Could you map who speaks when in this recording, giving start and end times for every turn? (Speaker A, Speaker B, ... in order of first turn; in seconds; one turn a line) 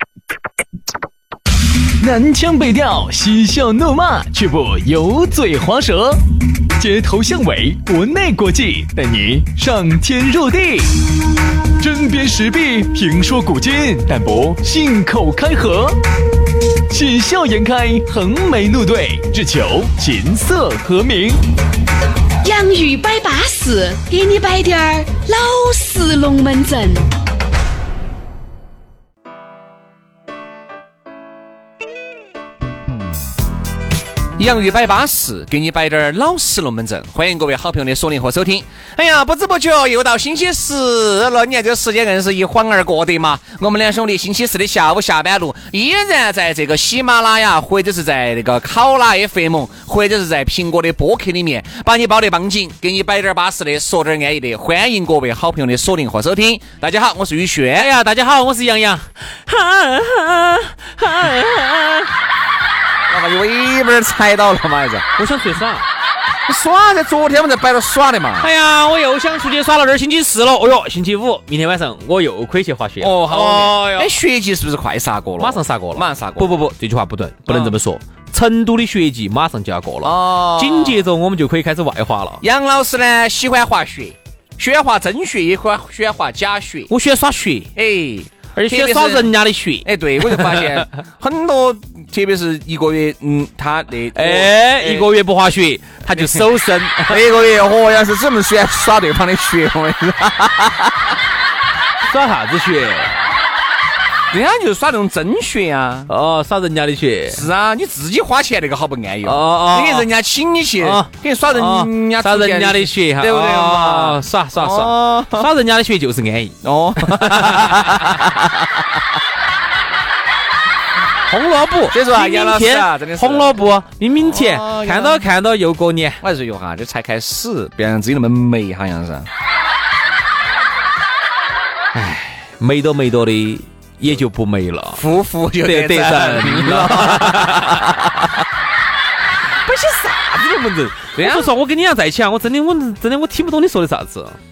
Speaker A: 2.0-6.2
Speaker A: 6.8-11.0
Speaker A: 11.8-16.0
Speaker A: 16.9-21.4
Speaker B: 22.4-27.1
Speaker C: 34.4-57.9
Speaker D: 57.8-62.1
Speaker C: 63.1-65.0
Speaker D: 65.2-65.8
Speaker C: 66.5-68.5
Speaker D: 68.4-74.1
Speaker C: 73.0-76.8
Speaker D: 75.4-82.4
Speaker C: 77.5-77.7
Speaker C: 80.0-81.1
Speaker C: 82.4-86.9
Speaker D: 86.9-87.7
Speaker C: 87.8-89.3
Speaker D: 88.5-90.8
Speaker C: 89.8-95.1
Speaker D: 94.1-97.2
Speaker C: 96.1-96.5
Speaker C: 97.0-101.1
Speaker D: 102.0-103.1
Speaker C: 104.3-106.1
Speaker D: 106.1-107.4
Speaker C: 107.3-115.5
Speaker D: 109.2-110.1
Speaker D: 110.8-118.2
Speaker C: 116.6-118.7
Speaker D: 121.3-126.2
Speaker C: 121.9-123.6
Speaker C: 124.2-125.2
Speaker C: 126.2-129.3
Speaker D: 131.9-135.0
Speaker C: 134.9-138.2
Speaker D: 135.6-138.3
Speaker D: 139.6-144.4
Speaker C: 141.2-141.5